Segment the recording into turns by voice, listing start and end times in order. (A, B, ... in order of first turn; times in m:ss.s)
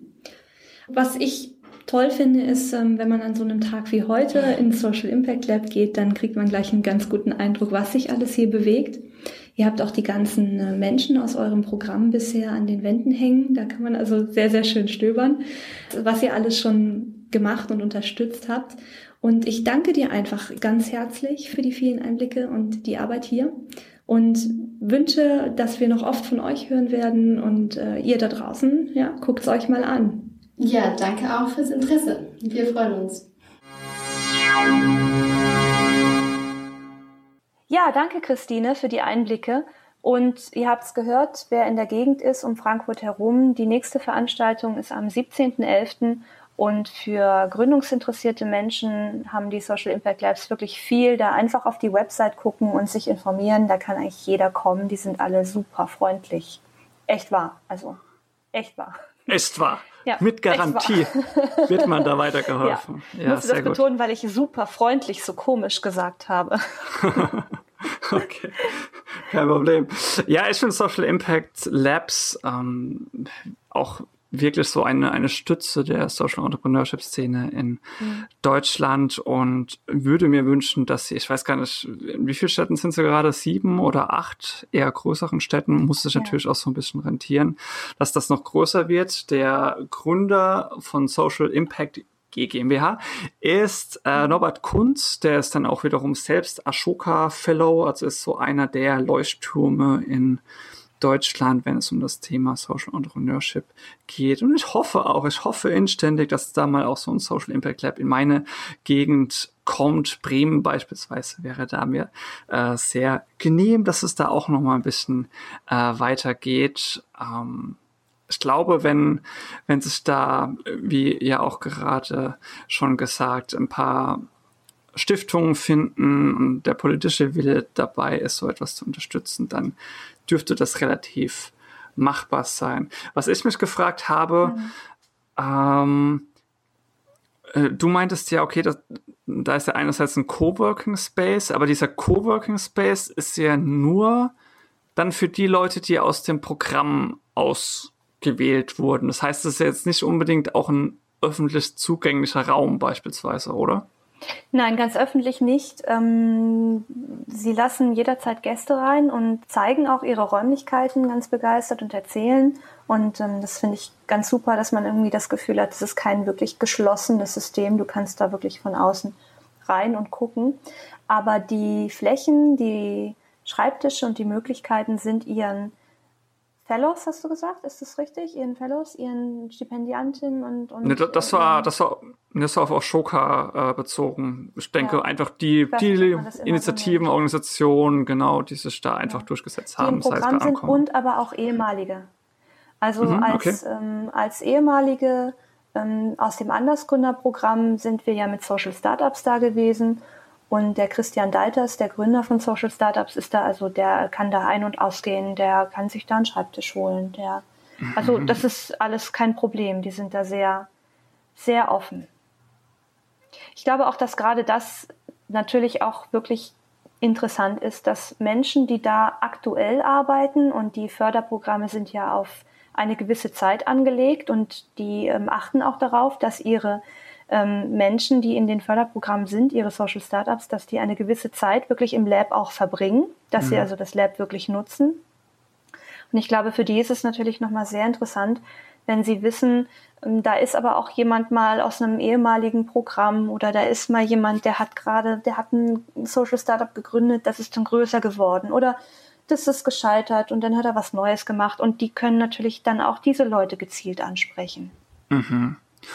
0:00.9-0:09.0 A
0:09.6-0:23.5 A
0:24.1-0:30.3 A
0:30.6-0:33.3 B
0:37.7-0:58.0 A
0:58.5-0:59.1 A
0:59.3-1:03.8 C
1:00.0-1:02.0 A
1:02.6-1:07.3 A
1:07.0-1:17.8 C
1:18.0-1:18.2 A
1:18.4-1:40.4 C
1:41.0-1:57.8 C
1:58.3-2:04.2 C
2:04.9-2:09.7 C
2:10.2-2:14.6 C
2:14.4-2:14.7 A
2:15.4-2:16.3 C
2:17.5-2:24.3 C
2:25.0-2:33.8 C
2:34.5-2:55.7 A
2:56.6-3:01.7 A
3:00.8-3:10.8 C
3:05.7-3:07.1 A
3:09.8-3:12.1 A
3:12.8-3:27.4 A
3:13.0-3:13.6 C
3:27.8-3:28.4 C
3:27.9-3:30.7 A
3:31.3-3:32.1 A
3:33.5-3:55.0 A
3:53.4-3:53.7 C
3:56.1-4:14.7 A
4:15.1-4:15.6 C